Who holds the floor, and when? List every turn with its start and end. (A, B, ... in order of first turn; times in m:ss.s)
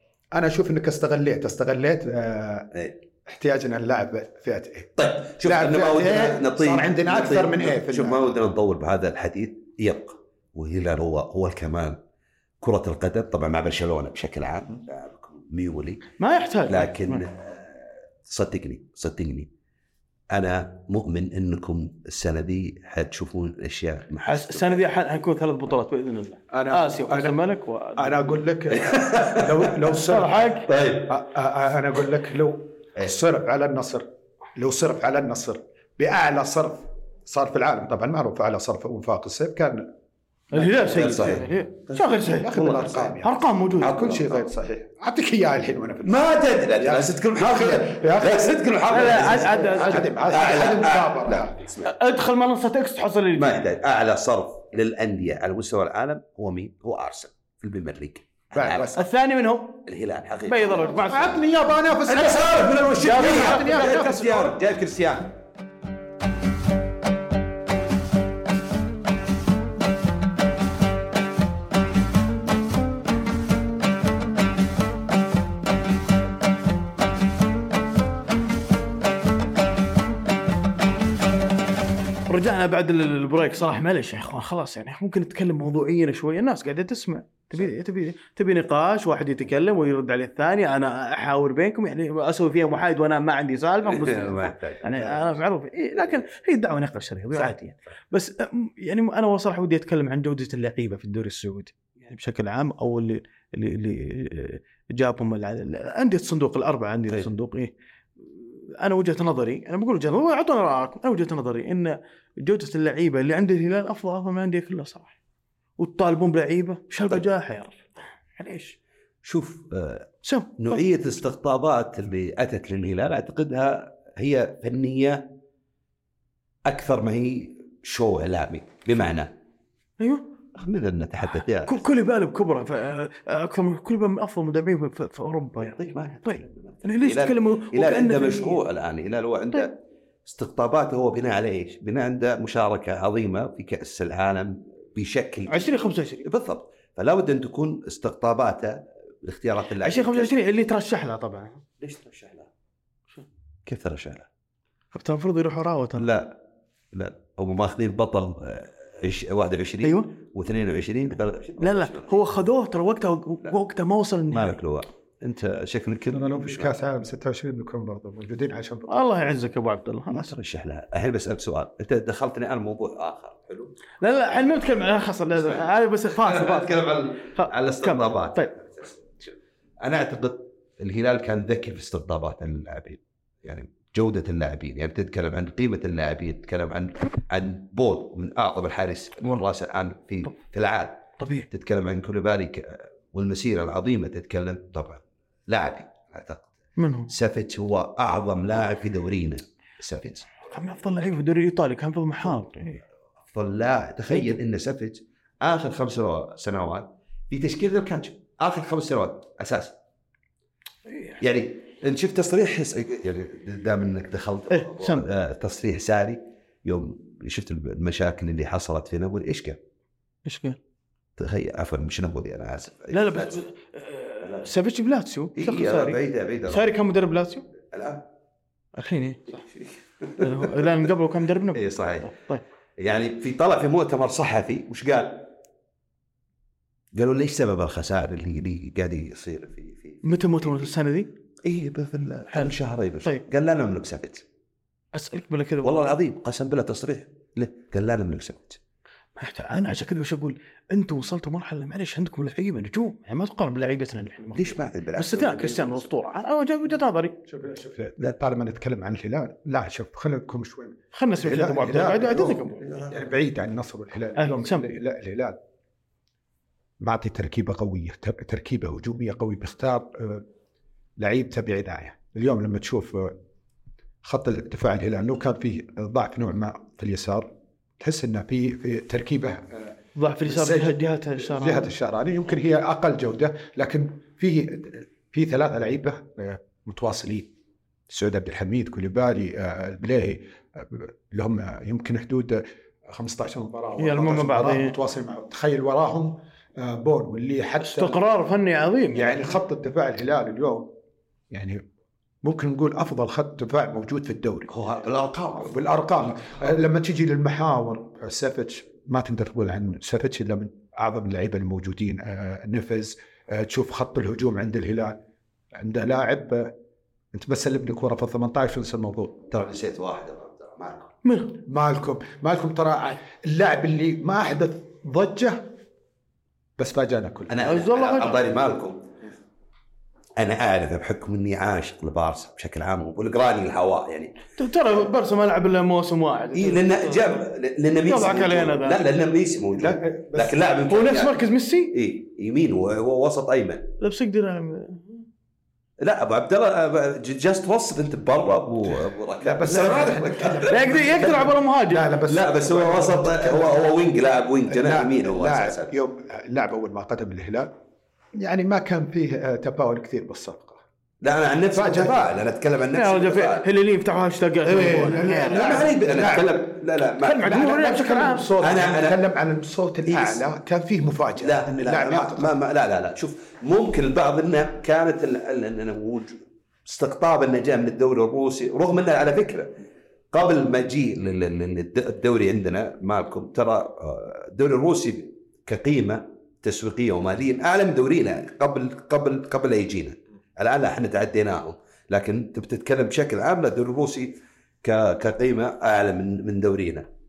0:00.3-0:02.7 A
0:03.3-0:08.3 A
0:05.0-0:12.0 B
0:12.6-0:16.0 B
0:16.2-0:17.2 C
0:16.7-0:19.5 B
0:20.3-0:24.8 B
0:24.2-0:28.4 C
0:26.5-0:27.4 A
0:28.0-0:30.5 A
0:28.7-0:29.8 B
0:30.1-0:30.7 C
0:30.6-0:31.1 B
0:31.1-0:39.8 A
0:40.5-0:42.6 C
0:40.6-0:41.3 A
0:40.8-0:43.2 B
0:42.4-0:51.7 A
0:43.2-0:44.0 C
0:43.8-0:44.4 B
0:46.0-0:49.7 B
0:48.9-0:50.2 C
0:50.3-0:51.9 B
0:51.8-0:53.6 C
0:53.4-0:58.9 B
0:58.5-0:59.0 A
0:58.9-0:59.8 C
0:59.8-1:01.2 B
1:00.5-1:01.3 C
1:01.0-1:04.5 A
1:02.1-1:05.3 B
1:03.0-1:04.1 C
1:22.3-1:47.7 C
1:33.8-1:35.3 B
1:48.8-1:55.1 C
1:55.8-1:57.8 C
1:58.4-1:58.8 C
1:59.2-2:05.3 B
2:00.2-2:00.8 C
2:06.6-2:09.3 B
2:10.0-2:10.2 C
2:10.6-2:11.8 B
2:11.6-2:18.6 C
2:15.6-2:19.7 B
2:20.2-2:30.3 B
2:25.5-2:26.2 C
2:29.8-2:31.6 C
2:31.8-2:32.5 B
2:33.6-2:34.3 B
2:34.9-2:36.1 C
2:36.0-2:36.4 B
2:36.9-2:42.2 B
2:39.8-2:40.1 C
2:41.6-2:44.6 C
2:44.3-2:46.7 B
2:46.1-2:48.9 A
2:48.9-2:50.3 C
2:50.1-2:53.7 B
2:54.0-2:56.8 C
2:56.2-3:16.4 B
2:57.3-2:58.5 C
3:11.2-3:11.4 C
3:16.8-3:17.1 C
3:17.1-3:20.3 B
3:20.5-3:22.8 C
3:23.3-3:29.7 B
3:31.2-3:39.6 B
3:34.5-3:35.0 C
3:40.2-3:40.6 C
3:41.2-3:43.4 B
3:42.9-3:47.4 C
3:44.2-3:44.5 B
3:45.4-3:46.7 B
3:47.7-3:48.0 B
3:48.8-3:49.4 C
3:49.4-3:50.7 B
3:50.2-3:52.4 C
3:51.5-3:52.1 B
3:52.8-3:55.3 B
3:56.9-4:00.7 B
4:00.0-4:01.1 C
4:01.4-4:04.2 B
4:02.3-4:03.2 C
4:04.9-4:06.0 C
4:05.6-4:08.6 B
4:09.2-4:17.1 C
4:14.3-4:15.9 B
4:17.3-4:25.4 A
4:20.9-4:22.6 C
4:22.4-4:23.0 B
4:24.2-4:24.7 C
4:26.8-4:30.2 A
4:31.0-4:33.2 A
4:34.0-4:37.2 A
4:37.8-4:47.3 A
4:40.0-4:41.7 C
4:47.9-4:58.0 A
4:53.8-4:54.7 C
4:57.6-4:59.3 C
4:58.9-5:00.7 A
5:01.3-5:01.6 A
5:02.2-5:04.5 A
5:04.5-5:05.6 B
5:05.4-5:15.0 A
5:15.5-5:16.5 A
5:17.1-5:19.3 A
5:19.3-5:20.9 B
5:21.0-5:21.4 C
5:21.5-5:25.4 A
5:26.6-5:27.4 A
5:27.3-5:28.8 B
5:27.4-5:28.2 C
5:30.2-5:34.2 B
5:34.4-5:37.2 C
5:36.3-5:41.2 B
5:37.8-5:38.9 C
5:39.6-5:40.4 A
5:40.7-5:41.7 C
5:41.7-5:43.7 B
5:43.8-5:45.0 C
5:45.8-5:51.2 B
5:49.2-5:53.6 A
5:50.5-5:51.9 C
5:52.0-5:55.7 B
5:54.5-5:57.5 A
5:58.2-6:00.6 A
6:01.0-6:03.4 B
6:01.5-6:02.0 A
6:02.7-6:05.6 C
6:04.4-6:06.4 A
6:05.0-6:07.5 B
6:07.0-6:08.4 C
6:07.2-6:12.4 A
6:08.4-6:09.0 B
6:09.9-6:10.2 B
6:11.2-6:19.5 B
6:20.1-6:36.8 B